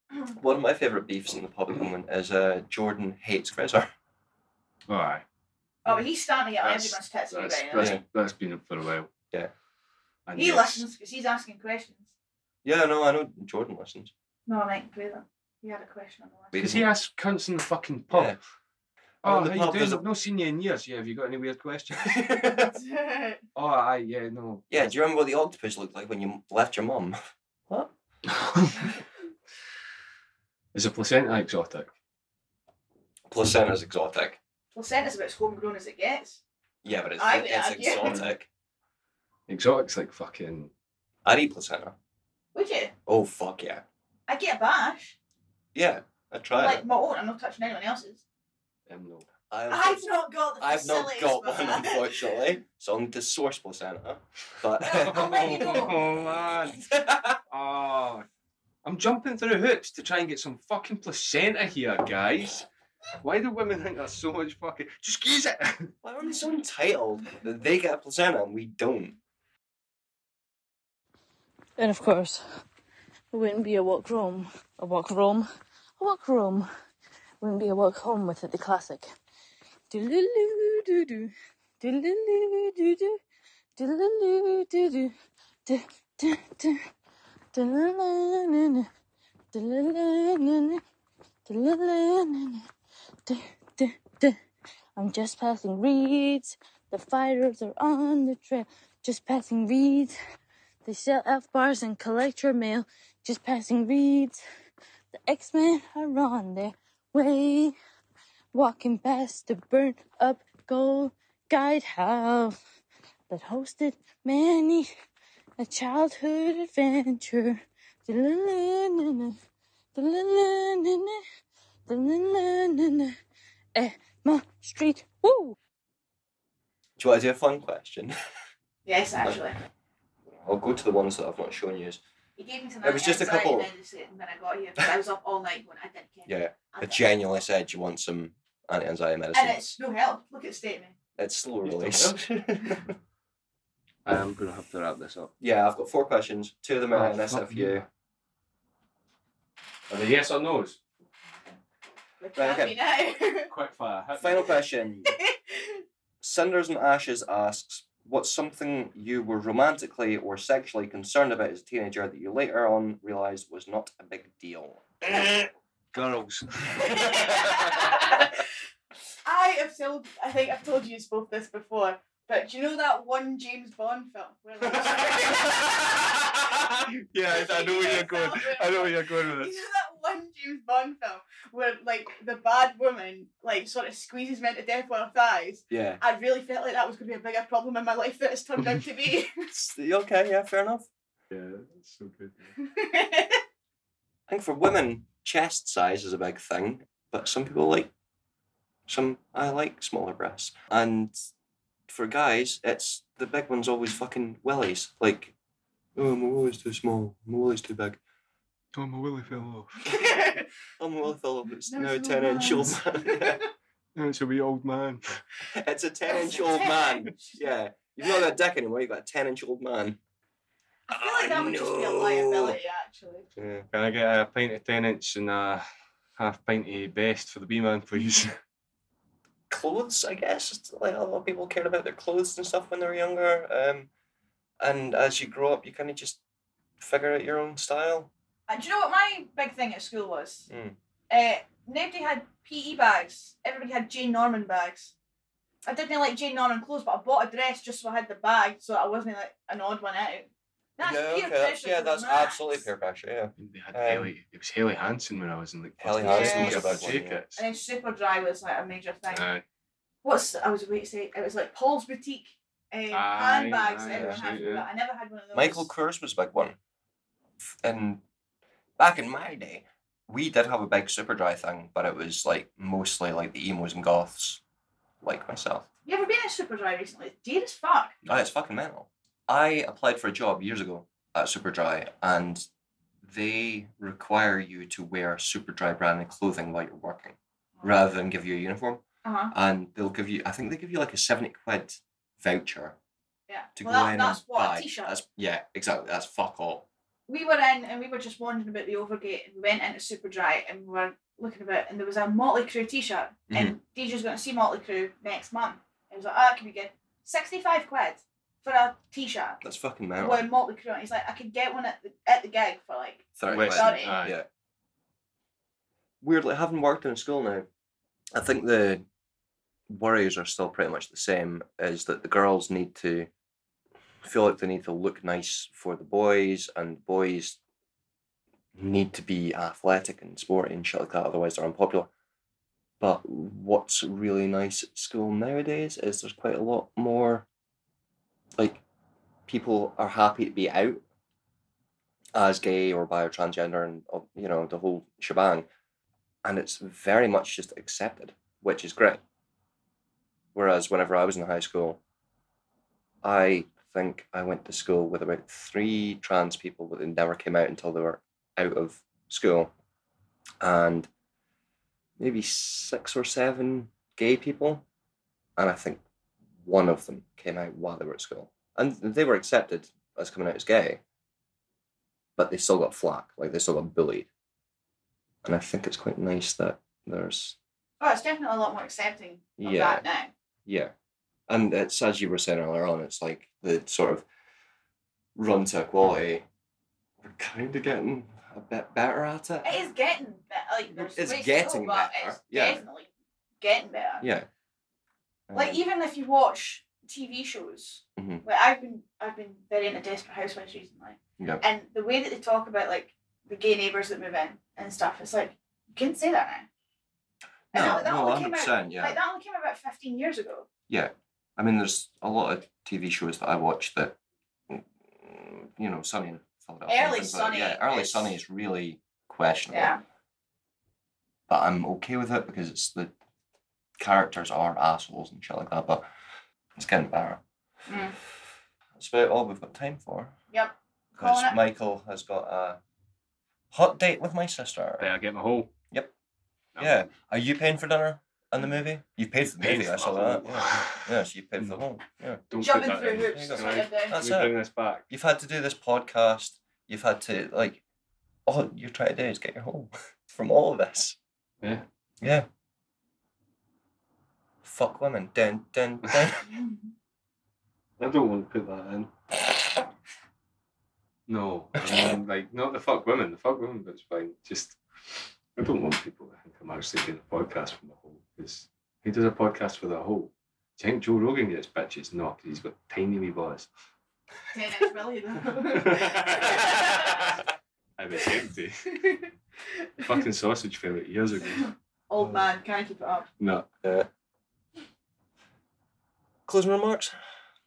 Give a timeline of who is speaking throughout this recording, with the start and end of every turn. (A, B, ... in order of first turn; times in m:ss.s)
0:00.3-0:03.9 A
0:04.9-0:05.2 B
0:05.8-0:08.0 C
0:06.6-0:09.1 B
0:07.8-0:08.0 A
0:10.3-0:10.8 B
0:10.4-0:12.1 C
0:12.6-0:14.1 A
0:14.5-0:16.5 C
0:16.5-0:16.9 A
0:16.6-0:18.4 B
0:18.1-0:18.4 A
0:19.2-0:22.3 B
0:19.2-0:20.1 A
0:22.1-0:22.7 A
0:22.6-0:23.4 C
0:23.6-0:24.7 B
0:24.7-0:27.2 A
0:28.3-0:28.8 B
0:30.7-0:31.9 B
0:33.3-0:34.4 A
0:34.7-0:36.4 C
0:36.8-0:38.5 A
0:37.2-0:38.2 C
0:39.5-0:40.7 B
0:41.2-0:42.0 A
0:42.6-0:42.9 C
0:43.1-0:43.8 A
0:44.3-0:45.2 C
0:45.7-0:46.8 A
0:46.6-0:48.2 C
0:48.9-0:49.2 B
0:49.5-0:50.1 A
0:49.7-0:52.3 C
0:50.6-0:56.0 A
0:54.8-0:56.0 C
0:55.0-0:56.8 B
0:56.8-0:57.4 A
0:57.5-0:58.3 B
0:58.8-1:02.7 B
1:03.2-1:05.9 B
1:06.0-1:09.2 A
1:11.8-1:12.4 D
1:13.3-1:15.4 D
1:16.0-1:16.7 D
1:17.4-1:19.1 D
1:19.9-1:23.2 D
1:23.8-1:25.1 D
1:25.7-1:26.8 D
1:27.5-1:28.9 D
1:29.5-1:30.8 D
1:31.5-1:32.6 D
1:33.3-1:34.4 D
1:35.0-1:40.2 D
1:40.8-1:44.4 D
1:45.1-1:47.8 D
1:48.5-1:52.6 D
1:53.3-1:54.9 D
1:55.6-1:59.4 D
1:59.9-2:01.2 D
2:01.9-2:03.2 D
2:03.8-2:05.6 D
2:07.0-2:08.2 A
2:08.9-2:09.6 C
2:10.3-2:12.0 A
2:12.4-2:17.3 C
2:12.8-2:13.7 A
2:16.3-2:19.6 A
2:19.3-2:21.0 C
2:21.2-2:22.9 A
2:21.6-2:22.2 B
2:24.0-2:25.3 B
2:25.4-2:27.9 A
2:26.9-2:27.8 B
2:29.9-2:30.8 B
2:32.2-2:33.5 C
2:32.4-2:32.8 A
2:33.5-2:34.5 B
2:34.2-2:35.1 A
2:35.1-2:35.8 C
2:36.2-2:45.0 A
2:46.0-2:47.1 A
2:46.8-2:48.4 C
2:49.2-2:56.3 C
2:54.7-2:59.5 B
2:57.3-3:09.4 C
3:05.7-3:06.0 A
3:09.5-3:10.9 A
3:11.3-3:12.6 B
3:12.6-3:13.4 C
3:14.3-3:17.9 A
3:18.9-3:21.2 A
3:21.9-3:25.3 A
3:26.0-3:28.0 A
3:28.7-3:29.8 B
3:29.9-3:30.4 C
3:30.8-3:33.4 A
3:31.7-3:33.4 C
3:34.0-3:35.2 B
3:35.5-3:40.0 A
3:36.1-3:37.8 C
3:40.9-3:43.3 C
3:40.9-3:42.6 A
3:43.4-3:43.7 A
3:43.7-3:45.6 B
3:46.2-3:48.4 B
3:49.5-3:53.9 A
3:54.6-3:56.2 A
3:56.8-3:58.1 A
3:58.5-4:00.5 C
4:00.5-4:00.8 A
4:01.1-4:04.9 C
4:05.6-4:12.6 C
4:10.8-4:14.1 A
4:13.4-4:17.4 B
4:15.8-4:17.2 A
4:16.0-4:19.3 C
4:19.1-4:19.4 B
4:20.0-4:25.7 C
4:22.9-4:24.7 B
4:23.9-4:24.2 A
4:25.3-4:26.6 A
4:27.6-4:28.0 A
4:28.8-4:34.4 A
4:35.0-4:35.7 A
4:35.9-4:37.9 C
4:38.0-4:42.5 A
4:43.0-4:52.8 A
4:49.0-4:49.3 C
4:53.3-4:54.9 C
4:53.6-4:56.7 A
4:57.1-5:09.4 C
5:03.3-5:03.6 A
5:09.4-5:10.3 A
5:10.0-5:14.0 C
5:13.2-5:14.3 A
5:13.3-5:14.2 B
5:16.0-5:17.5 A
5:18.1-5:18.8 A
5:19.7-5:23.1 A
5:24.0-5:27.4 A
5:28.6-5:31.9 A
5:32.8-5:37.3 A
5:39.3-5:40.8 A
5:42.2-5:45.5 A
5:46.2-5:49.0 A
5:50.3-5:51.8 A
5:53.0-5:59.5 A
6:00.4-6:00.9 A
6:02.0-6:04.6 A
6:05.4-6:05.8 A
6:06.4-6:10.8 A
6:12.2-6:14.1 A
6:15.2-6:17.4 A
6:17.8-6:20.1 C
6:19.4-6:19.8 A
6:20.5-6:20.7 A
6:21.3-6:24.0 A
6:25.2-6:26.2 A
6:27.0-6:29.6 A
6:29.4-6:32.9 C
6:30.7-6:32.6 A
6:33.4-6:34.1 C
6:34.0-6:34.3 A
6:35.3-6:35.6 A
6:35.3-6:46.5 C
6:38.0-6:38.2 A
6:47.5-6:49.0 A
6:47.5-6:50.5 C
6:50.7-6:54.0 A
6:54.5-6:59.8 A
6:56.7-6:58.2 C
6:59.5-6:59.8 C
7:01.3-7:02.9 A
7:03.8-7:05.9 A
7:06.6-7:07.2 A
7:07.7-7:08.0 C
7:08.8-7:10.2 A
7:10.3-7:11.4 C
7:11.0-7:12.6 A
7:13.5-7:14.9 A
7:14.8-7:15.5 B
7:16.6-7:16.9 B
7:16.6-7:22.2 A
7:19.4-7:20.8 B
7:22.3-7:24.9 B
7:22.4-7:24.0 C
7:23.1-7:24.4 A
7:24.9-7:27.6 A
7:28.3-7:31.0 A
7:32.0-7:32.3 A
7:34.4-7:36.3 A
7:36.3-7:36.7 C
7:37.8-7:38.9 B
7:41.1-7:53.5 B
7:41.6-7:42.0 A
7:54.3-7:57.1 C
7:55.5-7:57.1 B
7:57.8-7:58.8 B
7:58.7-7:59.1 C
7:59.6-8:00.0 C
7:59.8-8:01.5 B
8:01.3-8:03.1 C
8:03.2-8:03.5 B
8:06.3-8:07.0 A